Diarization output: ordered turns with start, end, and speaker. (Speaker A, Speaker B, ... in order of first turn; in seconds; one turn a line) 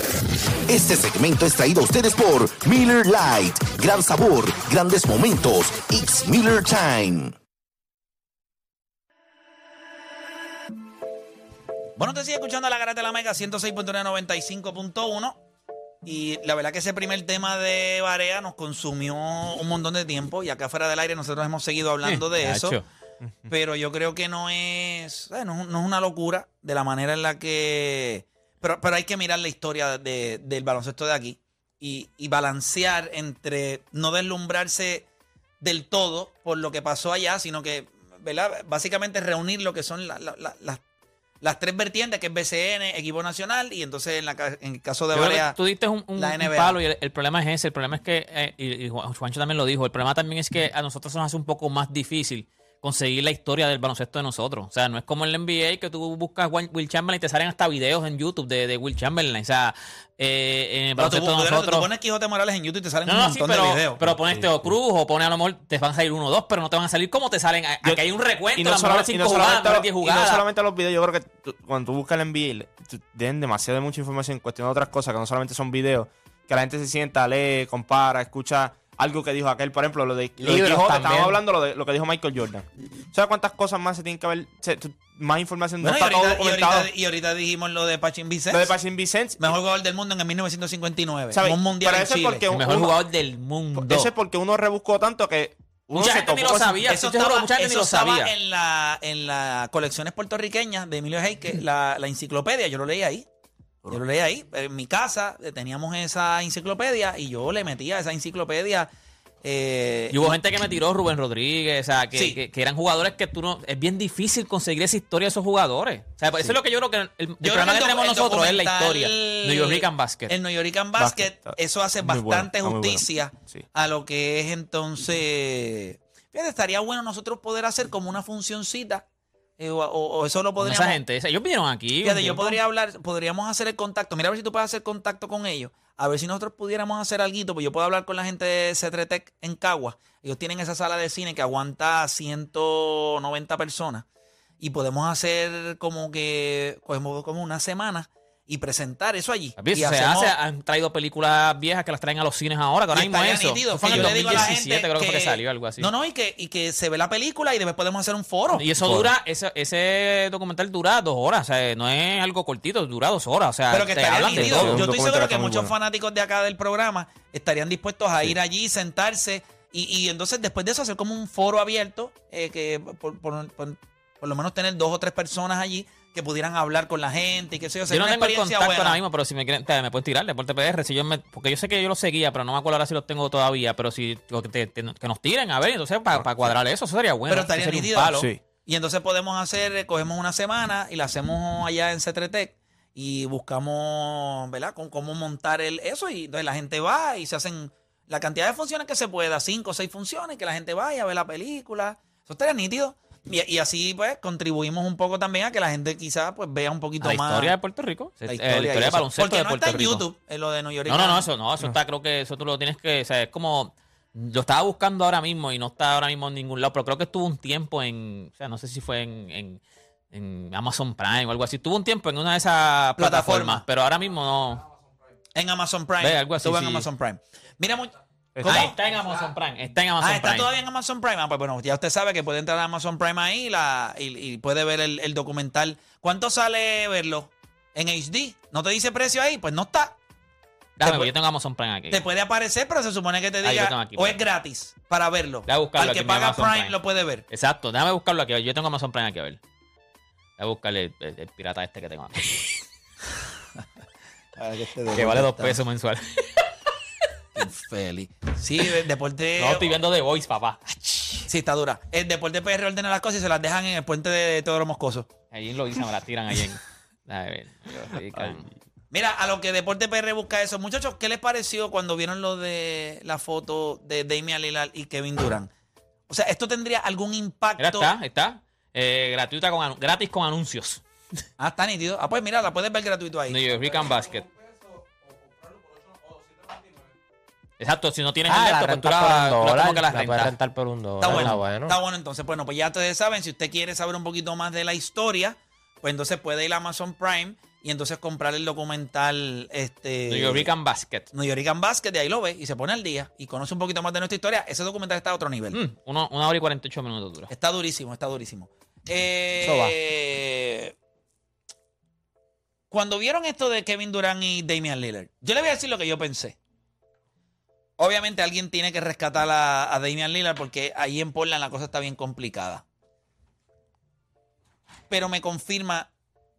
Speaker A: 0.7-7.3
Speaker B: 12.0-15.4
Speaker B: 16.0-22.8
Speaker C: 22.0-22.8
Speaker B: 23.5-35.0
Speaker B: 35.6-40.8
Speaker B: 41.4-45.5
Speaker C: 45.1-61.9
Speaker B: 46.1-46.8
Speaker B: 61.0-64.0
Speaker C: 63.0-70.4
Speaker D: 64.2-64.7
Speaker D: 68.5-86.9
Speaker E: 80.4-81.4
Speaker B: 85.8-88.7
Speaker D: 88.5-89.5
Speaker B: 89.4-92.4
Speaker D: 91.3-92.9
Speaker C: 92.5-94.1
Speaker D: 93.8-96.8
Speaker C: 95.9-98.3
Speaker B: 96.8-103.2
Speaker B: 103.9-108.9
Speaker B: 109.4-110.4
Speaker C: 110.1-120.3
Speaker B: 112.1-112.4
Speaker B: 117.4-129.0
Speaker D: 121.0-123.6
Speaker B: 129.6-131.0
Speaker C: 130.6-132.6
Speaker B: 132.0-144.1
Speaker B: 144.6-150.3
Speaker C: 149.6-155.9
Speaker B: 152.9-158.7
Speaker C: 158.5-164.9
Speaker D: 158.8-159.1
Speaker B: 163.7-179.0
Speaker D: 164.3-165.7
Speaker C: 177.9-188.3
Speaker D: 186.2-186.5
Speaker B: 187.3-207.5
Speaker D: 188.1-188.4
Speaker C: 207.0-210.0
Speaker B: 208.2-211.3
Speaker C: 210.8-219.6
Speaker C: 220.1-224.7
Speaker B: 223.0-223.6
Speaker B: 225.3-228.7
Speaker C: 226.0-226.9
Speaker D: 228.3-228.7
Speaker C: 228.4-230.5
Speaker B: 230.0-239.9
Speaker C: 240.8-242.0
Speaker B: 240.8-241.1
Speaker B: 241.9-247.2
Speaker C: 243.4-244.2
Speaker C: 245.4-246.8
Speaker C: 247.3-249.4
Speaker C: 250.4-252.6
Speaker B: 254.4-255.6
Speaker C: 254.9-256.4
Speaker B: 257.4-259.8
Speaker C: 259.4-261.3
Speaker B: 261.3-265.1
Speaker C: 265.3-268.5
Speaker B: 268.9-275.5
Speaker B: 276.1-277.9
Speaker C: 277.6-280.8
Speaker B: 281.4-283.4
Speaker C: 283.3-284.3
Speaker C: 287.6-290.3
Speaker E: 288.3-291.8
Speaker B: 291.0-300.5
Speaker C: 291.1-291.3
Speaker C: 300.1-301.1
Speaker B: 301.1-305.6
Speaker C: 305.5-307.3
Speaker B: 307.3-310.7
Speaker E: 309.4-309.8
Speaker B: 312.7-316.4
Speaker B: 317.8-322.6
Speaker B: 324.9-325.9